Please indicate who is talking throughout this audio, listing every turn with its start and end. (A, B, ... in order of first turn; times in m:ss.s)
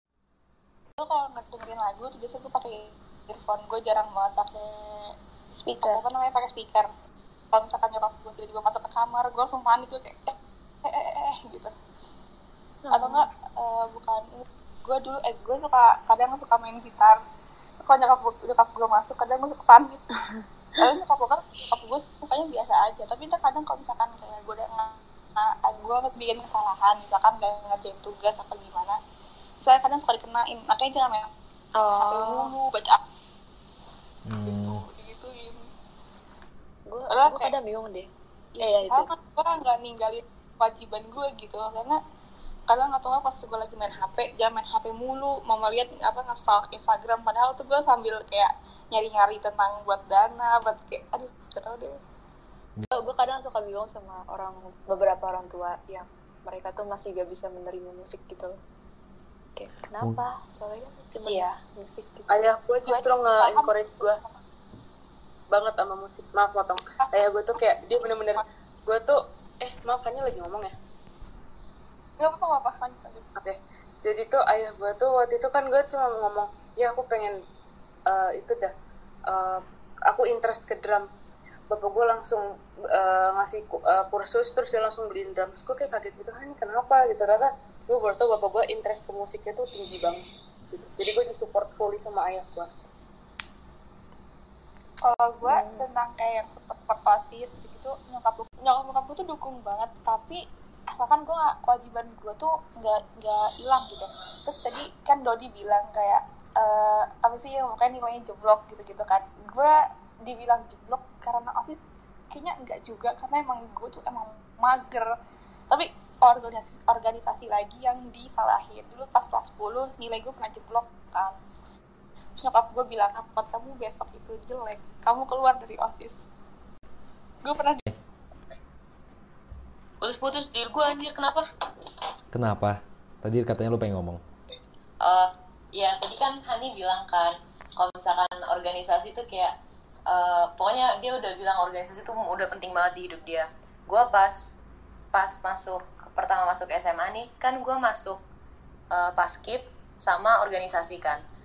0:01.0-0:05.1 A
0:05.6-0:06.0 B
0:05.7-0:06.9 A
0:07.5-0:11.7 A
0:12.9-0:13.2 B
0:12.9-0:17.2 A
0:17.8-0:20.0 A
0:20.8-0:29.0 A
0:29.6-0:31.3 A
0:31.8-0:32.5 B
0:32.1-0:33.0 A
0:34.2-0:34.8 C
0:34.4-0:35.6 A
0:36.9-0:38.1 D
0:37.1-0:37.5 A
0:38.6-0:42.0 A
0:38.6-0:39.1 D
0:42.7-0:52.0 A
0:52.9-0:58.6 D
0:59.6-1:02.3 D
1:02.3-1:04.2 E
1:03.3-1:03.7 A
1:05.5-1:10.7 E
1:07.9-1:08.4 A
1:12.2-1:13.2 A
1:13.4-1:17.4 E
1:18.1-1:18.7 E
1:19.3-1:21.0 E
1:21.7-1:32.7 E
1:35.0-1:55.1 A
1:35.5-1:35.8 B
1:55.7-2:01.4 A
2:02.4-2:06.2 A
2:07.4-2:07.8 A
2:10.0-2:11.5 F
2:12.3-2:14.2 C
2:15.0-2:19.6 F
2:20.1-2:24.5 F
2:25.1-2:28.2 F
2:28.9-2:31.2 F